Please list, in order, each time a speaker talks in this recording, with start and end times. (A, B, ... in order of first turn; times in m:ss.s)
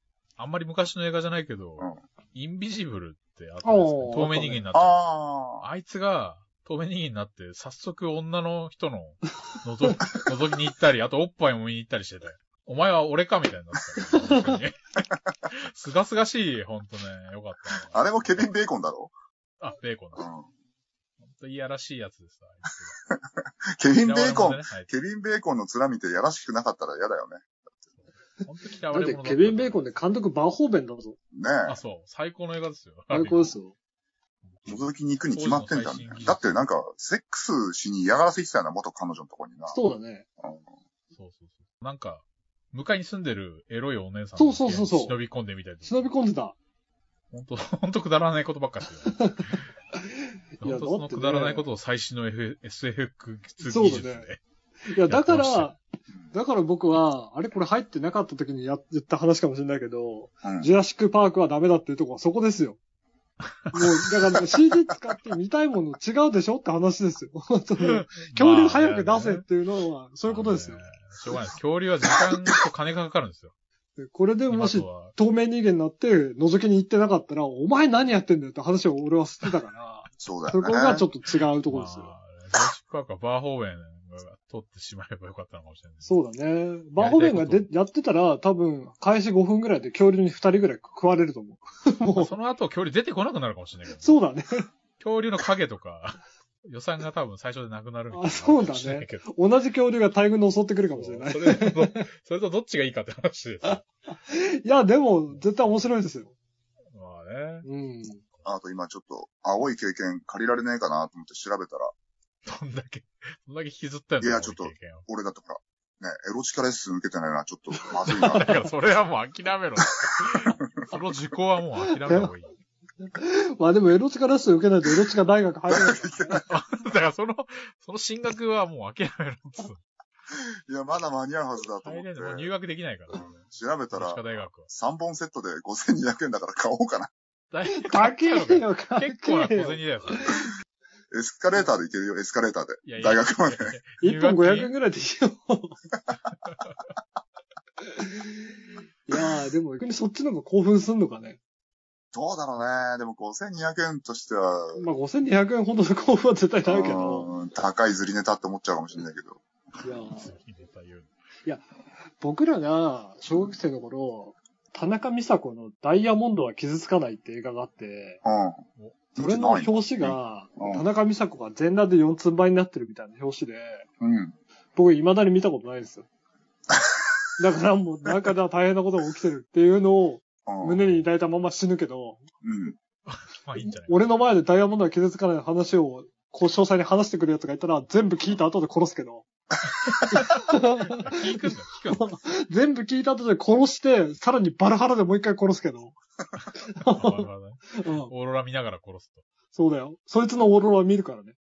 0:00.4-0:05.0 A
0:03.6-0:04.6 B
0:04.7-0:05.6 C
0:05.6-0:14.9 A
0:14.1-0:14.5 B
0:15.4-0:18.4 A
0:17.8-0:19.1 C
0:19.6-0:20.3 A
0:20.2-0:20.5 C
0:21.2-0:23.0 A
0:23.8-0:27.5 C
0:24.0-0:24.9 A
0:28.0-0:29.8 A
0:28.9-0:31.2 B
0:31.3-0:31.8 C
0:31.7-0:33.6 A
0:33.1-0:33.7 B
0:34.5-0:36.6 A
0:34.6-0:39.8 C
0:39.7-0:40.2 B
0:40.4-0:40.7 C
0:41.1-0:46.1 A
0:44.4-0:45.2 B
0:45.8-0:46.5 B
0:47.3-0:49.6 A
0:49.1-0:51.6 B
0:50.6-0:54.4 A
0:53.6-0:54.3 B
0:54.9-0:55.8 B
0:55.0-0:55.7 A
0:56.3-1:02.8 B
1:00.4-1:00.7 C
1:03.4-1:03.8 A
1:03.7-1:10.8 B
1:07.8-1:09.4 A
1:10.3-1:13.5 A
1:12.1-1:12.6 C
1:14.0-1:22.1 B
1:14.5-1:15.1 A
1:20.2-1:21.1 C
1:21.7-1:26.1 A
1:26.0-1:32.3 B
1:27.0-1:27.7 A
1:32.1-1:34.2 A
1:34.0-1:34.7 B
1:35.0-1:39.2 A
1:38.1-1:42.1 B
1:40.9-1:43.9 A
1:44.1-1:46.3 B
1:46.9-1:47.6 A
1:47.6-1:48.2 B
1:48.4-1:51.9 C
1:52.4-1:55.0 A
1:54.2-1:58.6 C
1:58.0-1:58.6 B
1:58.2-2:02.5 A
2:02.0-2:02.3 B
2:03.0-2:06.4 B
2:05.7-2:06.4 C
2:06.5-2:09.8 A
2:10.3-2:12.5 C
2:11.8-2:14.7 A
2:13.3-2:17.1 C
2:17.5-2:20.5 A
2:17.7-2:20.5 B
2:21.1-2:23.7 C
2:22.8-2:24.7 A
2:24.0-2:25.8 B
2:27.8-2:28.5 B
2:29.1-2:31.4 B
2:32.1-2:34.8 C
2:34.8-2:37.3 B
2:36.6-2:39.4 C
2:39.8-2:40.3 B
2:40.1-2:41.1 A
2:42.2-2:48.2 B
2:48.2-2:48.6 C
2:49.1-2:50.8 C
2:49.2-2:53.9 B
2:54.0-2:54.3 C
2:54.8-2:56.0 B
2:56.7-2:57.0 C
2:57.4-3:02.2 B
3:00.4-3:00.8 C
3:02.4-3:02.8 C
3:03.1-3:04.3 A
3:03.6-3:09.2 B
3:09.9-3:12.1 A
3:10.1-3:16.0 B
3:16.4-3:19.2 A
3:16.7-3:18.1 B
3:19.5-3:21.4 B